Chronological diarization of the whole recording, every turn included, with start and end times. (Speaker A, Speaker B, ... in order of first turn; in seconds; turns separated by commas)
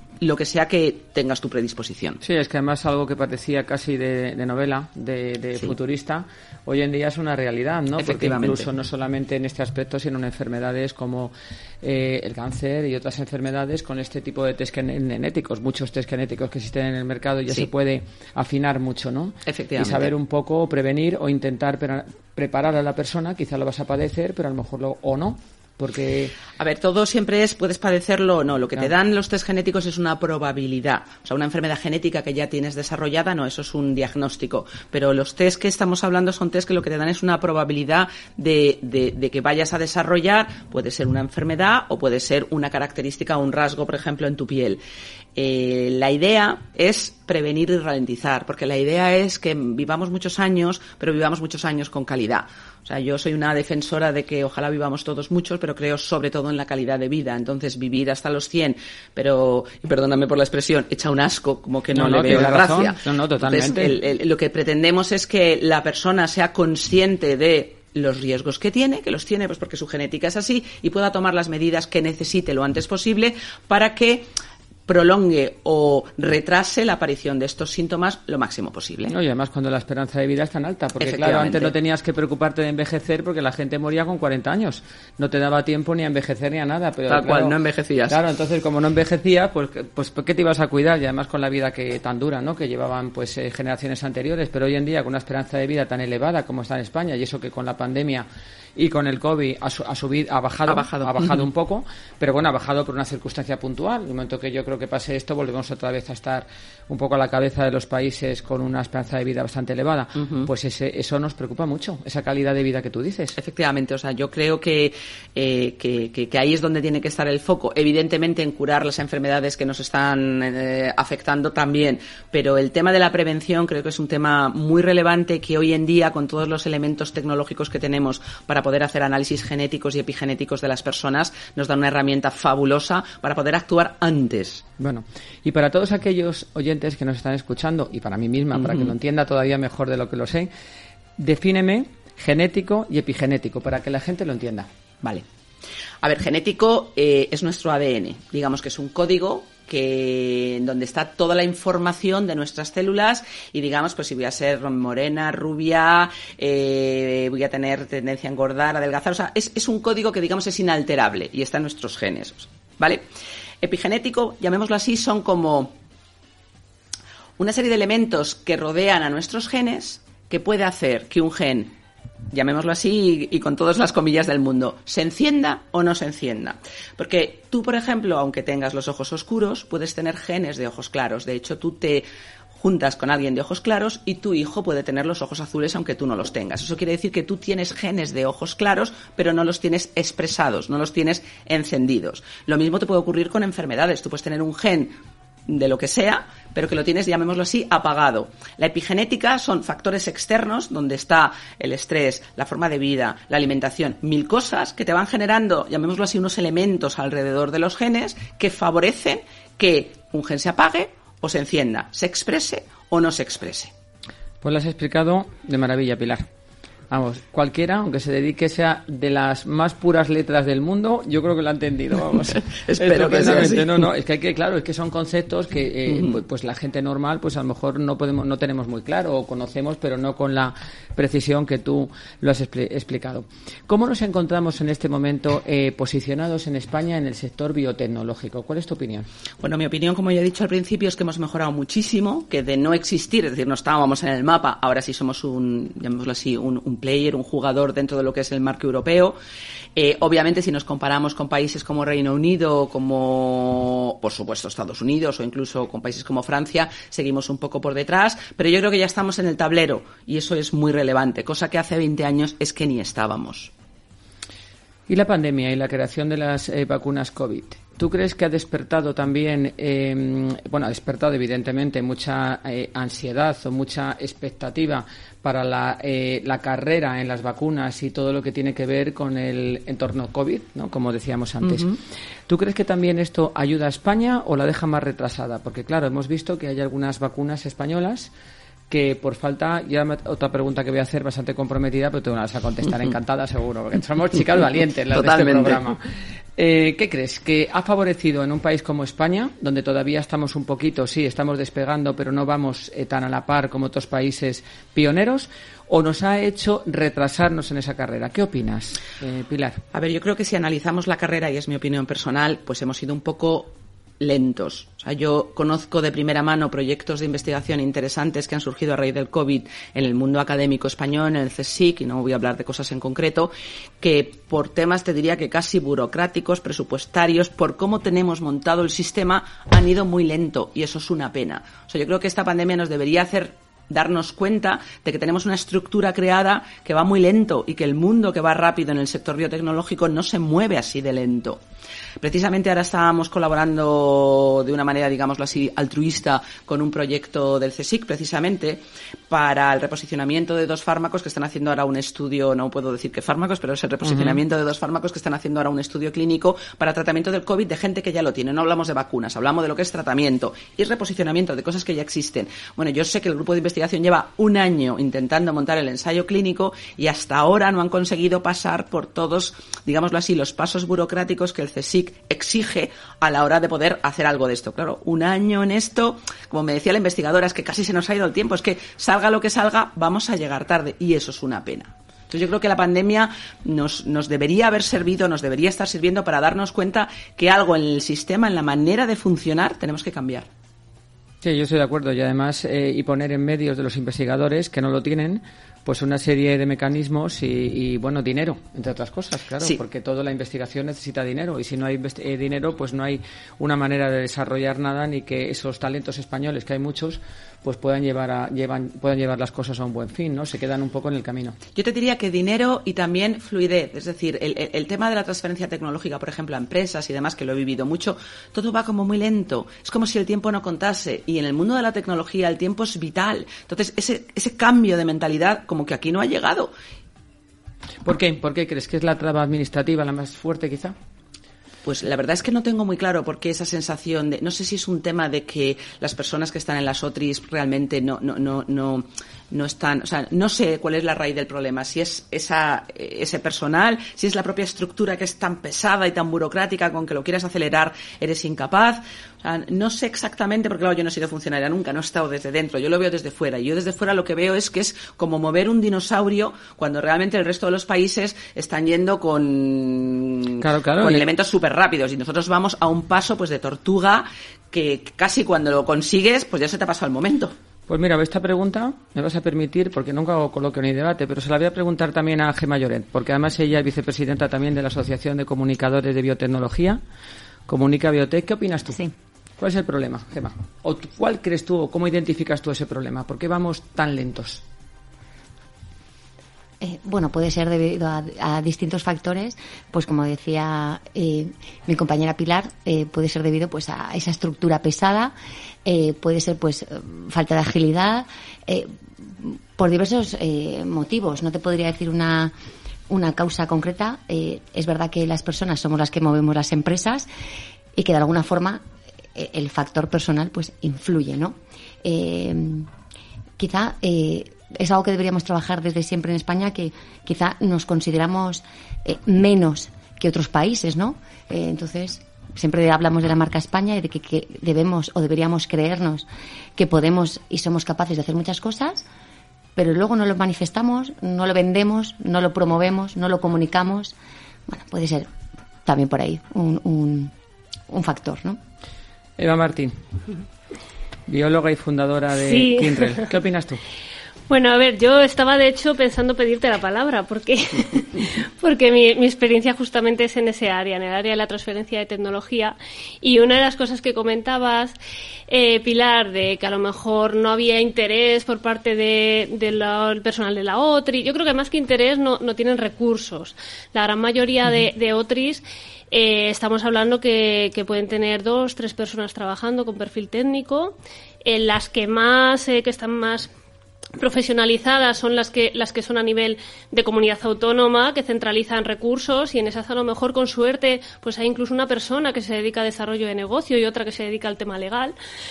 Speaker A: 0.2-2.2, Speaker B: 2.2-26.3, Speaker A: 8.0-8.7, Speaker A: 19.4-20.1, Speaker A: 26.6-44.8, Speaker A: 45.4-74.3, Speaker B: 61.9-64.0, Speaker A: 74.9-79.1, Speaker B: 79.1-87.5, Speaker A: 81.0-81.7, Speaker A: 87.1-88.2, Speaker B: 88.1-113.3, Speaker A: 100.7-101.4, Speaker A: 110.2-110.5, Speaker A: 113.3-134.6, Speaker B: 134.8-140.5, Speaker A: 138.6-138.9, Speaker B: 141.2-144.7, Speaker A: 146.0-163.0, Speaker A: 163.6-165.7, Speaker A: 167.4-171.7, Speaker A: 172.3-182.1, Speaker A: 182.6-194.9, Speaker A: 195.5-213.7, Speaker B: 214.4-216.3, Speaker B: 216.9-239.1, Speaker A: 222.5-223.8, Speaker A: 239.4-249.2, Speaker A: 249.8-263.5, Speaker B: 264.9-281.7, Speaker A: 281.5-281.8, Speaker B: 282.3-288.1, Speaker B: 288.7-295.8, Speaker A: 294.9-295.7, Speaker B: 296.4-309.6, Speaker A: 309.7-341.4, Speaker A: 342.0-390.3, Speaker B: 353.9-354.2, Speaker B: 391.2-411.4, Speaker A: 411.6-426.5, Speaker B: 427.8-430.7, Speaker A: 431.6-467.3, Speaker B: 460.4-461.1, Speaker B: 467.7-476.8, Speaker B: 477.5-478.8, Speaker B: 479.4-484.4, Speaker C: 486.6-495.1, Speaker C: 495.6-502.3, Speaker C: 502.9-507.1, Speaker C: 507.7-508.6, Speaker C: 509.1-512.7, Speaker C: 513.4-526.0, Speaker C: 526.6-528.8, Speaker C: 529.5-533.9, Speaker C: 534.5-535.1, Speaker C: 535.6-537.1, Speaker C: 537.7-538.4, Speaker B: 539.2-539.8, Speaker B: 541.1-543.6, Speaker D: 542.1-543.1, Speaker D: 544.3-554.7, Speaker D: 555.3-573.3, Speaker D: 574.0-585.0